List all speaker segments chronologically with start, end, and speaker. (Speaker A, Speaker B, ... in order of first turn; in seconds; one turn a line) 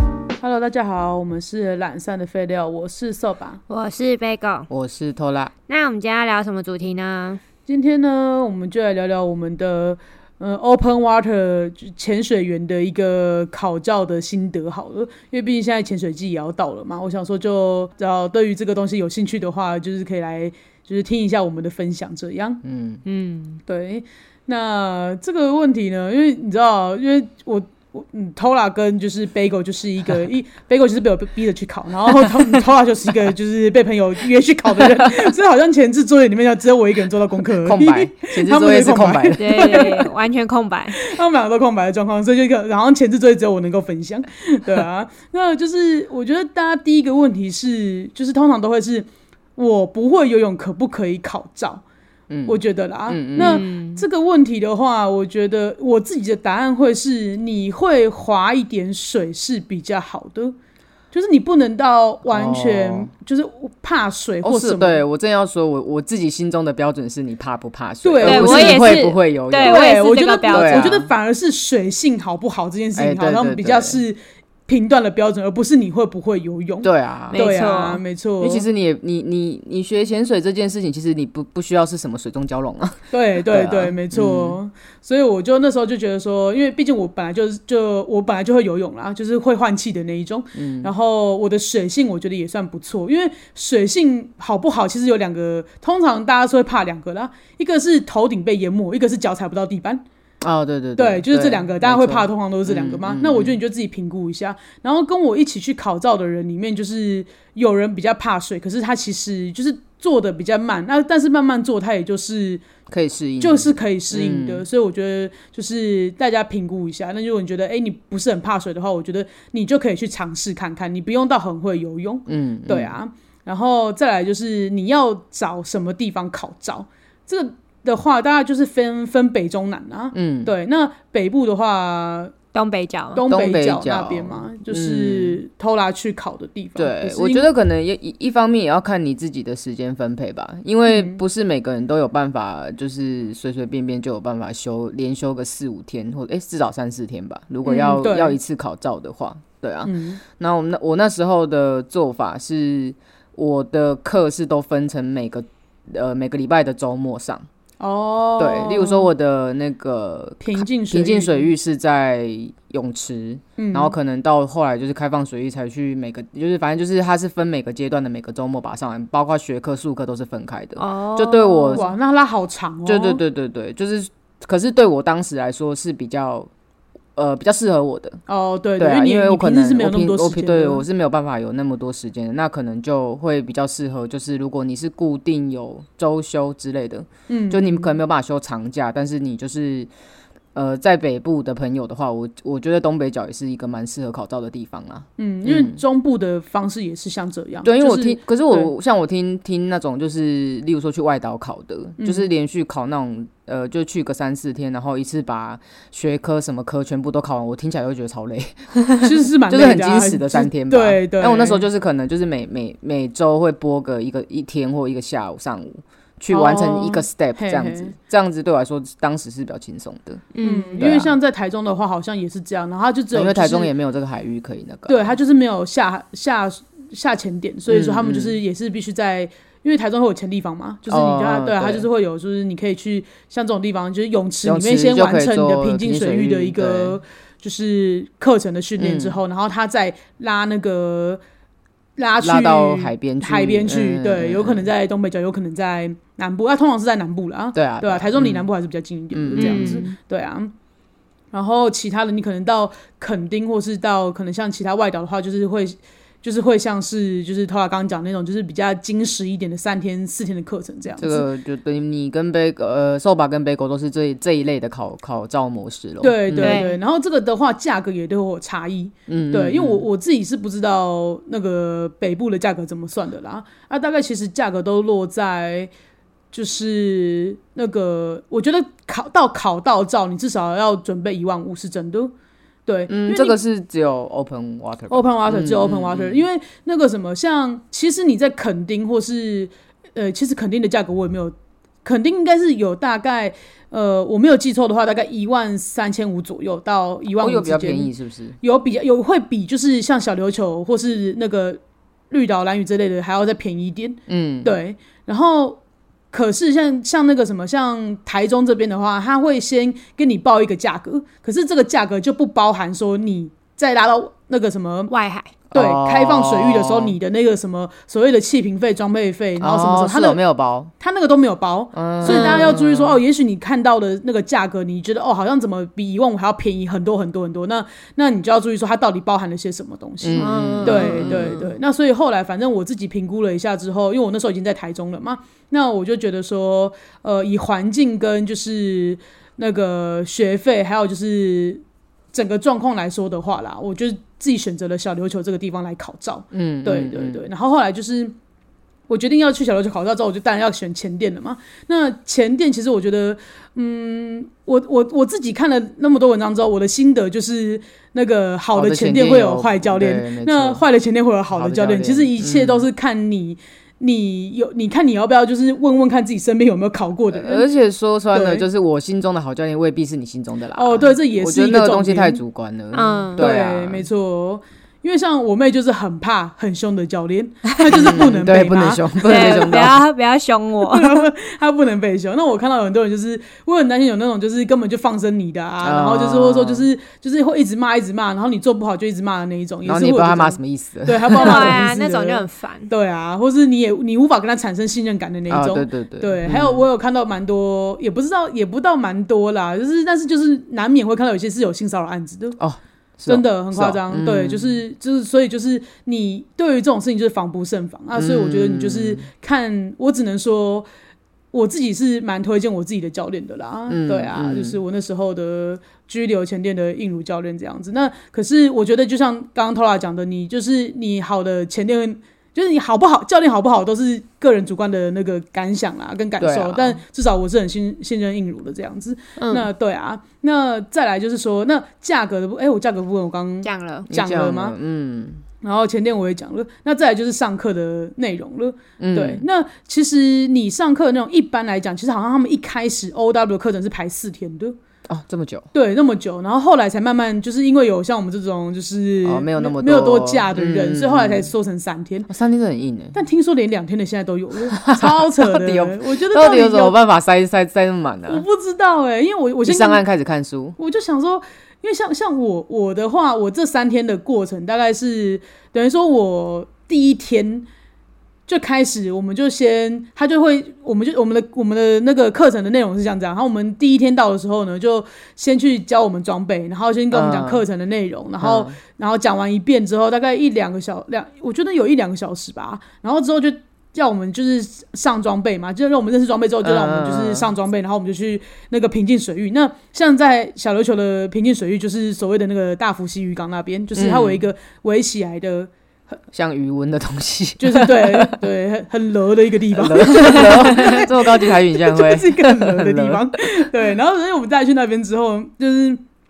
Speaker A: 0.4-3.6
Speaker B: 3.7-4.7
Speaker C: 4.7-5.5
Speaker B: 5.7-7.4
Speaker A: 7.7-22.6
Speaker C: 22.6-23.0
Speaker B: 23.0-23.6
Speaker A: 23.6-40.1
Speaker C: 37.6-39.9
Speaker B: 39.4-41.0
Speaker A: 41.0-51.8
Speaker C: 52.3-53.6
Speaker A: 52.5-60.5
Speaker B: 53.4-54.0
Speaker A: 61.1-65.0
Speaker C: 62.3-63.1
Speaker C: 64.4-69.9
Speaker A: 68.0-69.0
Speaker B: 68.2-70.9
Speaker A: 69.6-78.7
Speaker C: 70.5-71.1
Speaker C: 73.0-74.0
Speaker C: 76.8-77.5
Speaker B: 77.3-78.0
Speaker C: 78.4-84.6
Speaker A: 83.1-100.0
Speaker C: 90.5-90.9
Speaker C: 100.4-103.5
Speaker A: 101.0-112.6
Speaker C: 112.9-114.7
Speaker A: 113.4-132.3
Speaker C: 122.3-122.9
Speaker C: 130.1-130.5
Speaker B: 132.5-133.2
Speaker A: 133.2-137.5
Speaker C: 133.3-135.4
Speaker C: 136.8-157.5
Speaker A: 140.8-141.2
Speaker B: 147.7-147.9
Speaker A: 147.7-148.3
Speaker A: 149.8-150.2
Speaker A: 157.8-159.1
Speaker C: 158.4-171.8
Speaker A: 160.4-161.5
Speaker A: 163.6-163.9
Speaker B: 170.8-171.9
Speaker A: 171.7-173.2
Speaker C: 172.8-176.5
Speaker C: 177.2-178.2
Speaker A: 178.3-180.8
Speaker C: 178.8-189.9
Speaker A: 187.3-187.9
Speaker C: 190.5-195.8
Speaker A: 195.2-198.7
Speaker C: 197.6-208.7
Speaker A: 202.0-202.3
Speaker A: 209.0-211.6
Speaker C: 209.5-221.2
Speaker A: 216.3-217.9
Speaker B: 220.3-220.8
Speaker A: 220.4-223.7
Speaker C: 223.1-225.1
Speaker A: 224.9-241.2
Speaker C: 227.7-228.3
Speaker C: 230.9-231.8
Speaker C: 234.4-237.0
Speaker C: 238.8-239.2
Speaker A: 242.0-250.5
Speaker C: 242.2-244.7
Speaker C: 247.5-248.5
Speaker C: 249.1-249.9
Speaker B: 249.3-249.9
Speaker A: 251.3-261.2
Speaker C: 261.0-266.6
Speaker A: 266.0-275.7
Speaker B: 266.4-266.8
Speaker C: 269.1-269.8
Speaker A: 276.3-282.1
Speaker A: 282.7-283.4
Speaker C: 282.9-286.2
Speaker A: 284.9-301.6
Speaker C: 297.2-298.4
Speaker A: 302.1-305.6
Speaker C: 304.1-304.5
Speaker A: 306.1-314.9
Speaker B: 314.9-315.3
Speaker C: 315.5-317.0
Speaker A: 315.5-320.2
Speaker C: 319.4-320.7
Speaker A: 320.8-341.6
Speaker C: 321.7-323.0
Speaker B: 322.0-322.6
Speaker C: 330.0-331.4
Speaker B: 330.2-331.4
Speaker A: 342.1-348.2
Speaker C: 346.3-347.2
Speaker A: 348.9-367.5
Speaker C: 358.5-360.6
Speaker C: 361.3-362.7
Speaker C: 367.1-373.9
Speaker A: 368.1-368.4
Speaker A: 370.6-372.2
Speaker B: 372.7-373.3
Speaker A: 373.2-379.5
Speaker C: 377.7-379.8
Speaker B: 379.0-381.0
Speaker A: 380.7-402.4
Speaker C: 385.6-386.7
Speaker C: 389.6-391.7
Speaker B: 391.1-392.7
Speaker C: 395.3-396.6
Speaker C: 402.4-404.6
Speaker A: 403.1-410.7
Speaker C: 407.9-409.0
Speaker A: 411.3-434.6
Speaker C: 413.7-414.6
Speaker C: 426.2-426.8
Speaker B: 429.2-429.5
Speaker B: 433.4-433.9
Speaker C: 433.9-435.2
Speaker A: 435.4-444.6
Speaker C: 438.8-439.2
Speaker C: 444.9-445.5
Speaker A: 445.5-452.1
Speaker C: 449.1-451.3
Speaker C: 452.1-452.9
Speaker A: 452.9-456.8
Speaker C: 454.6-458.2
Speaker A: 458.1-459.8
Speaker C: 459.4-460.6
Speaker A: 460.6-467.5
Speaker A: 468.3-495.5
Speaker C: 476.9-477.4
Speaker C: 478.2-478.6
Speaker C: 486.4-487.3
Speaker C: 493.8-494.2
Speaker C: 496.1-498.2
Speaker A: 497.4-505.8
Speaker C: 499.5-503.1